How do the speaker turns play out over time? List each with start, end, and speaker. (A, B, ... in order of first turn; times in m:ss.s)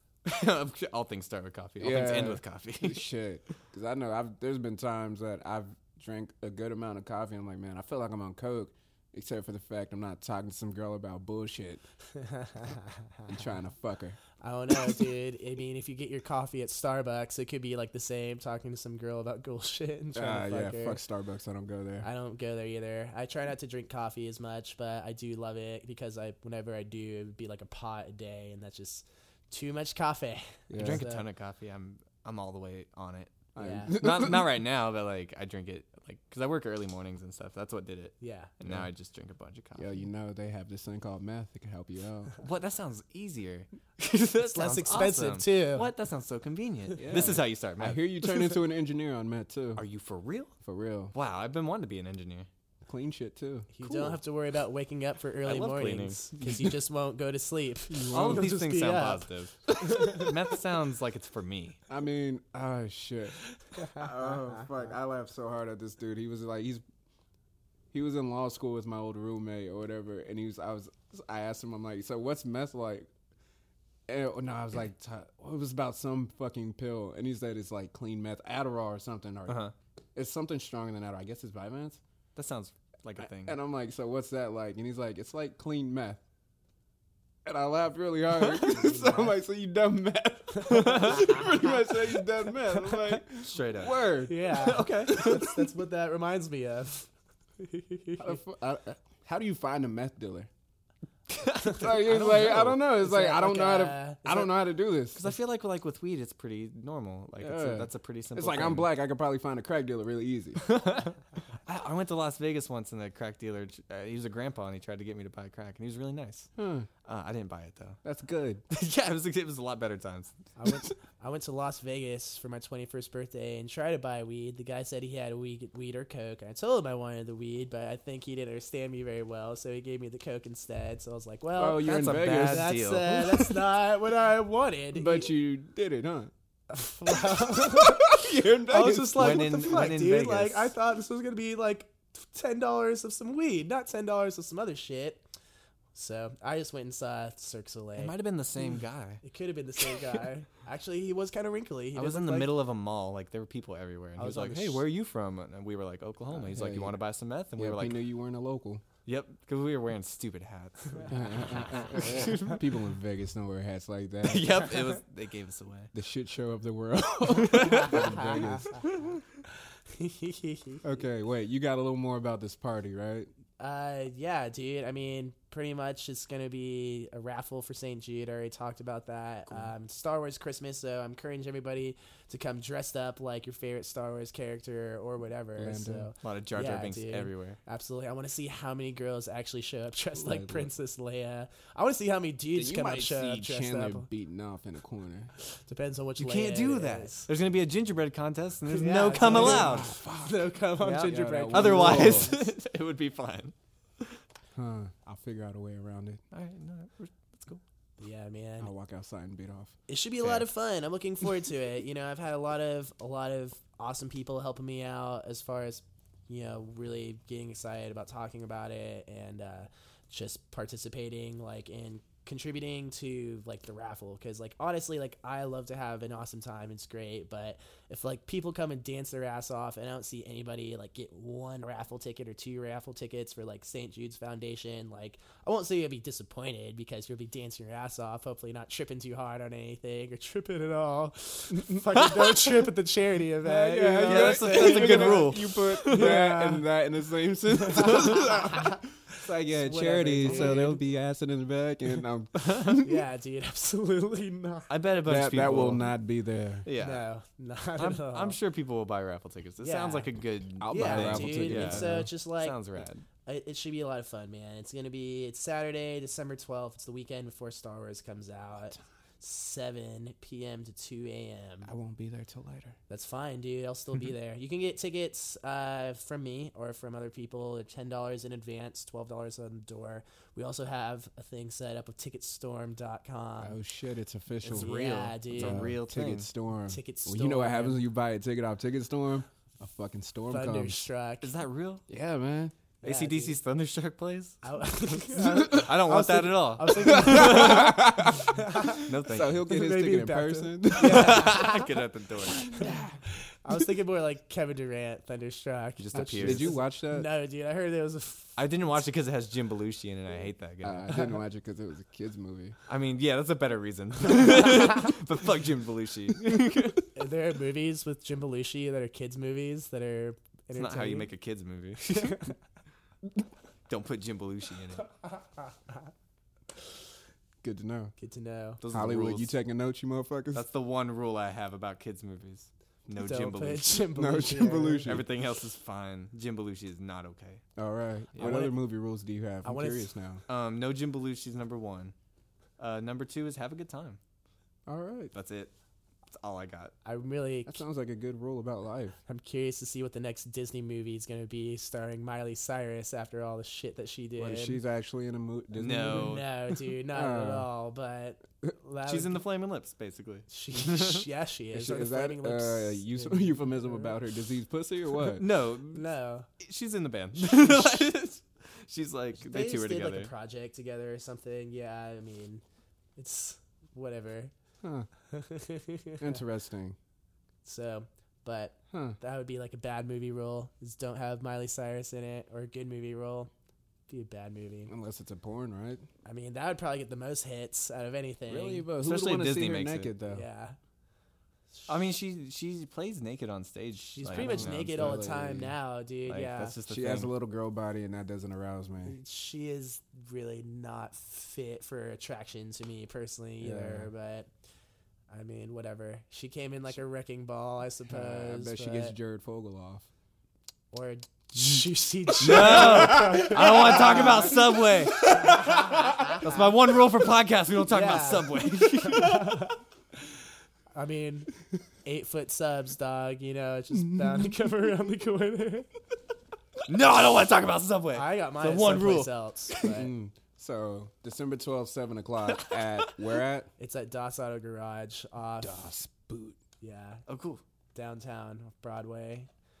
0:00.2-0:03.0 A
0:01.8-0:11.8 B
0:12.2-0:12.9 C
0:13.3-0:14.2 B
0:14.4-0:21.0 C
0:20.1-0:22.1 B
0:22.0-0:31.2 C
0:30.7-0:31.0 B
0:30.8-0:39.8 A
0:33.5-0:34.5 B
0:33.6-0:33.9 C
0:38.2-0:38.5 C
0:39.8-0:42.4 B
0:42.4-0:48.6 A
0:44.5-0:45.9 C
0:47.0-0:49.8 B
0:49.8-0:50.5 A
0:50.6-0:51.1 B
0:51.1-0:52.5 A
0:52.9-0:53.8 B
0:53.7-0:59.2 C
0:53.8-0:54.1 A
0:55.4-0:56.2 A
0:57.9-0:58.5 B
0:58.1-1:01.8 A
0:59.8-1:00.3 C
1:01.9-1:06.8 B
1:07.9-1:13.1 B
1:14.1-1:19.6 B
1:19.5-1:19.7 A
1:20.2-1:22.0 B
1:22.4-1:23.6 A
1:23.2-1:26.2 B
1:27.4-1:35.3 B
1:28.6-1:29.4 C
1:30.7-1:31.3 A
1:31.2-1:31.4 C
1:32.8-1:33.2 C
1:33.4-1:35.6 A
1:34.2-1:37.1 C
1:37.6-1:38.4 C
1:38.2-1:40.5 B
1:41.3-1:42.8 A
1:41.6-1:45.2 B
1:42.8-1:44.6 C
1:45.1-1:48.9 A
1:47.4-1:50.6 B
1:50.6-1:56.5 A
1:56.6-1:56.9 B
1:57.0-1:58.0 A
1:58.0-1:58.6 B
1:58.7-2:00.9 A
2:00.6-2:15.3 C
2:11.5-2:12.7 B
2:11.7-2:13.6 A
2:14.9-2:16.3 B
2:16.7-2:25.2 C
2:17.3-2:19.6 B
2:19.1-2:20.7 A
2:25.9-2:28.1 C
2:28.0-2:29.2 A
2:29.2-2:32.5 C
2:31.9-2:38.0 A
2:34.2-2:34.8 C
2:36.3-2:37.0 B
2:37.6-2:38.8 B
2:39.0-2:42.6 A
2:41.1-2:44.6 B
2:41.7-2:42.6 C
2:44.2-2:45.9 A
2:45.9-2:48.8 B
2:47.2-2:48.1 A
2:47.7-2:48.8 C
2:48.7-2:49.2 A
2:49.9-2:50.8 C
2:50.8-2:53.3 B
2:53.6-3:14.1 C
3:05.6-3:06.1 B
3:06.2-3:07.6 A
3:10.2-3:10.7 B
3:12.5-3:15.3 B
3:15.6-3:17.3 C
3:16.2-3:19.9 A
3:18.7-3:22.4 C
3:19.2-3:22.4 B
3:20.8-3:24.2 A
3:24.6-3:26.2 B
3:26.3-3:27.6 A
3:28.0-3:28.7 C
3:28.6-3:29.7 B
3:29.9-4:06.6 C
3:30.2-3:30.5 A
4:01.5-4:01.8 B
4:01.9-4:02.5 A
4:03.4-4:12.9 B
4:04.0-4:06.2 A
4:07.5-4:10.8 C
4:10.2-4:10.7 A
4:12.4-4:12.8 A
4:12.7-4:14.7 C
4:14.7-4:15.9 A
4:15.0-4:16.7 B
4:16.6-4:17.0 A
4:16.8-4:18.4 C
4:17.8-4:23.0 A
4:19.6-4:20.1 C
4:20.6-4:22.1 B
4:20.7-4:22.6 C
4:23.2-4:31.7 C
4:31.6-4:32.8 B
4:32.9-4:43.6 C
4:43.4-4:44.7 B
4:44.4-4:46.3 A
4:44.5-4:45.8 C
4:45.3-4:50.8 B
4:46.7-4:47.8 C
4:50.3-4:51.3 C
4:51.2-4:51.8 A
4:51.9-4:52.5 B
4:52.8-4:53.4 C
4:52.8-4:57.8 A
4:54.4-4:58.9 C
4:55.2-4:55.7 B
4:56.8-5:01.4 B
4:58.8-4:59.4 A
4:59.4-5:01.7 C
5:00.8-5:02.7 A
5:02.4-5:03.0 B
5:02.5-5:08.4 C
5:05.8-5:06.5 A
5:06.2-5:07.1 B
5:08.4-5:11.0 A
5:10.6-5:12.6 B
5:12.7-5:16.9 A
5:16.9-5:21.1 C
5:20.5-5:22.2 A
5:21.9-5:22.3 C
5:23.7-5:24.8 A
5:27.4-5:27.9 B
5:28.0-5:28.6 C
5:28.6-5:29.3 A
5:28.7-5:30.4 B
5:30.3-5:33.8 A
5:33.0-5:34.9 C
5:33.9-5:35.0 B
5:34.8-5:37.4 A
5:37.6-5:40.2 B
5:38.1-5:38.5 A
5:38.2-5:38.6 C
5:39.4-5:39.9 C
5:40.3-5:41.9 A
5:42.6-5:44.0 A
5:44.7-5:45.1 B
5:45.1-5:45.5 A
5:46.1-5:46.7 A
5:46.8-5:47.6 C
5:47.4-5:48.9 B
5:49.1-5:54.6 C
5:54.2-5:56.2 B
5:55.5-5:56.3 A
5:55.8-5:59.2 C
5:56.9-5:57.5 B
5:58.8-6:01.0 A
6:00.3-6:03.9 C
6:01.5-6:05.2 B
6:05.1-6:05.8 A
6:05.7-6:06.3 C
6:06.4-6:10.1 A
6:07.2-6:07.8 C
6:09.2-6:12.4 C
6:13.0-6:14.3 C
6:14.6-6:14.9 B
6:15.1-6:16.2 C
6:16.0-6:16.8 B
6:17.4-6:23.3 C
6:18.7-6:19.0 B
6:23.9-6:24.7 C
6:24.7-6:25.8 B
6:26.0-6:28.7 C
6:28.3-6:30.2 B
6:28.8-6:29.9 A
6:30.1-6:30.6 C
6:31.7-6:35.0 A
6:33.9-6:36.6 C
6:34.1-6:35.5 B
6:36.1-6:37.1 A
6:36.7-6:39.0 B
6:38.8-6:44.3 C
6:43.4-6:43.9 B
6:45.1-6:48.9 C
6:47.9-6:49.9 B
6:50.7-6:54.6 C
6:52.2-6:56.2 B
6:52.2-6:59.5 A
6:55.1-6:56.5 C
6:57.7-6:59.6 C
7:00.7-7:01.3 C
7:01.8-7:05.7 C
7:06.7-7:09.7 A
7:07.9-7:09.9 C
7:09.6-7:13.5 B
7:12.3-7:12.9 A
7:13.6-7:15.7 C
7:15.4-7:16.4 B
7:16.6-7:17.0 C
7:17.1-7:17.4 A
7:17.7-7:19.3 C